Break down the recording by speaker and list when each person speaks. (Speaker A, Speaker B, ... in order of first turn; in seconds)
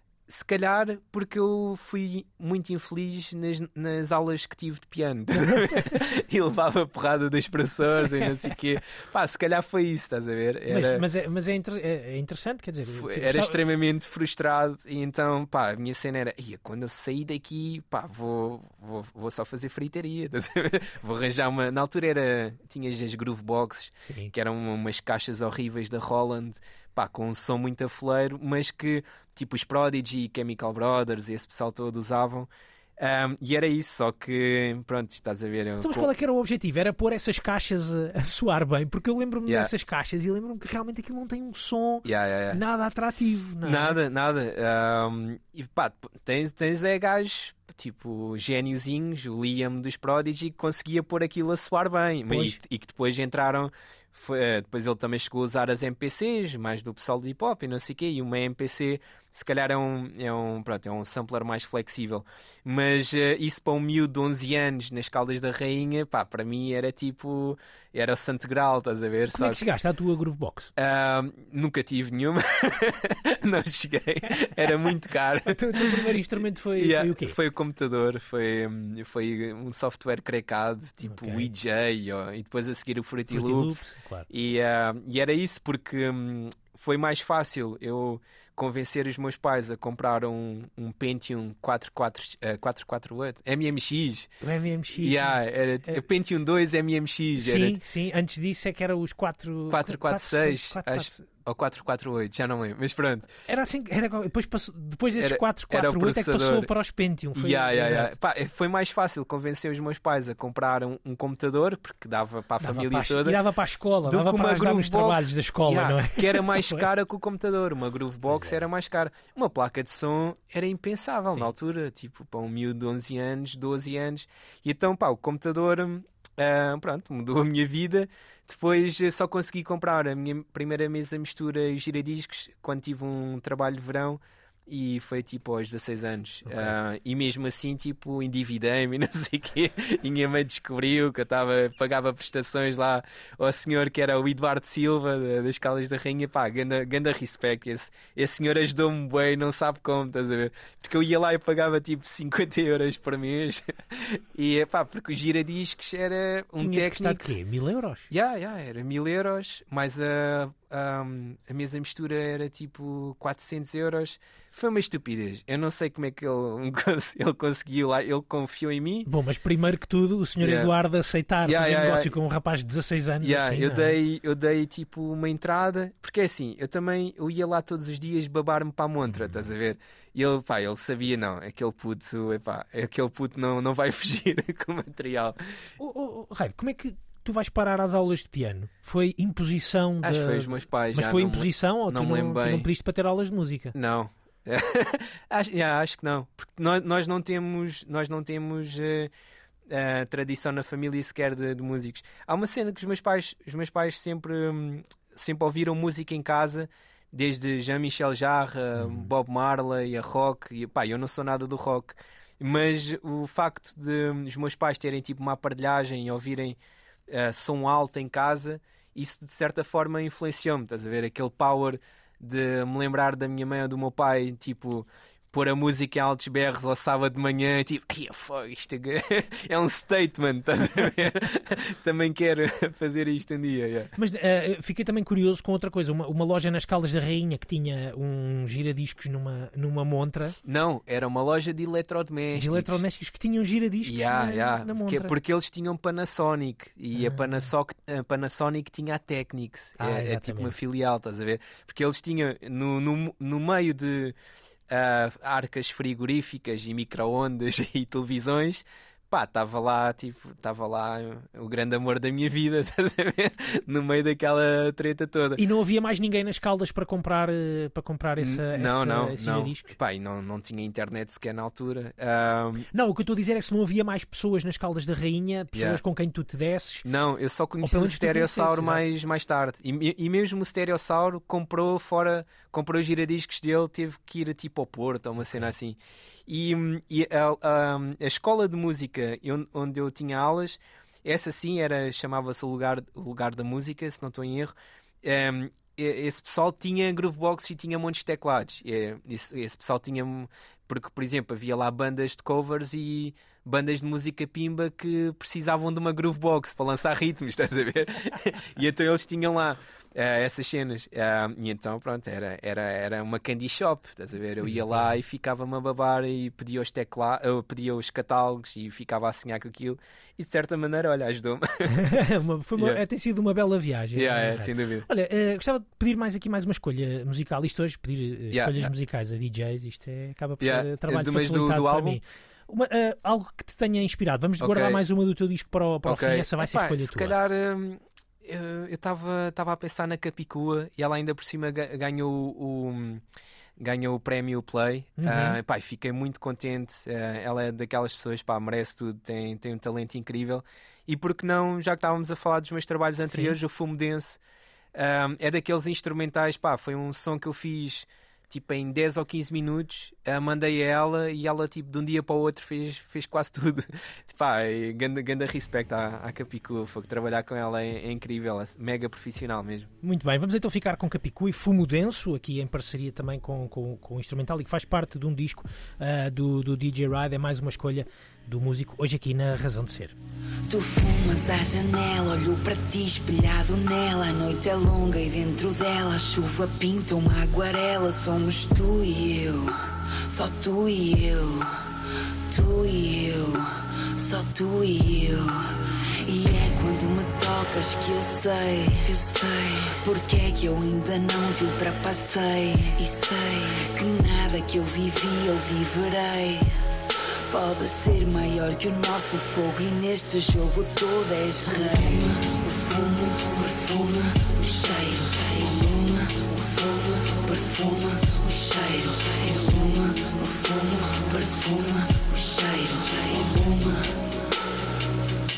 Speaker A: 0.3-11.0, 12.9-36.1, 42.0-42.6, 43.6-69.6, 70.8-76.2, 76.8-94.3, 94.9-97.8, 99.7-103.3, 105.2-106.7, 107.3-113.4, 114.0-157.3, 158.1-169.1, 170.4-170.7, 171.4-172.1, 173.2-185.6, 190.0-192.7, 193.7-199.1, 199.7-233.9, 240.4-242.8, 243.8-254.2, 254.7-265.4, 268.2-272.7, 275.5-275.8, 276.8-321.8, 323.9-324.9, 328.3-328.7, 330.4-332.0, 334.4-334.8, 335.8-343.0, 343.6-354.2, 354.7-369.7
Speaker B: 10.7-13.6, 24.0-24.3, 35.8-44.0, 52.3-52.6, 69.3-70.7, 75.5-77.3, 81.0-81.5, 83.3-84.3, 94.4-96.0, 97.4-101.3, 103.5-108.1, 112.6-116.8, 156.6-158.1, 169.1-173.9, 185.8-193.7, 233.9-240.4, 242.3-245.1, 246.9-247.2, 249.8-250.5, 265.4-269.7, 272.7-276.9, 277.6-278.8, 314.5-314.9, 321.7-337.1, 345.0-345.4, 369.8-379.9
Speaker C: 380.5-391.6, 392.3-406.5, 407.3-424.0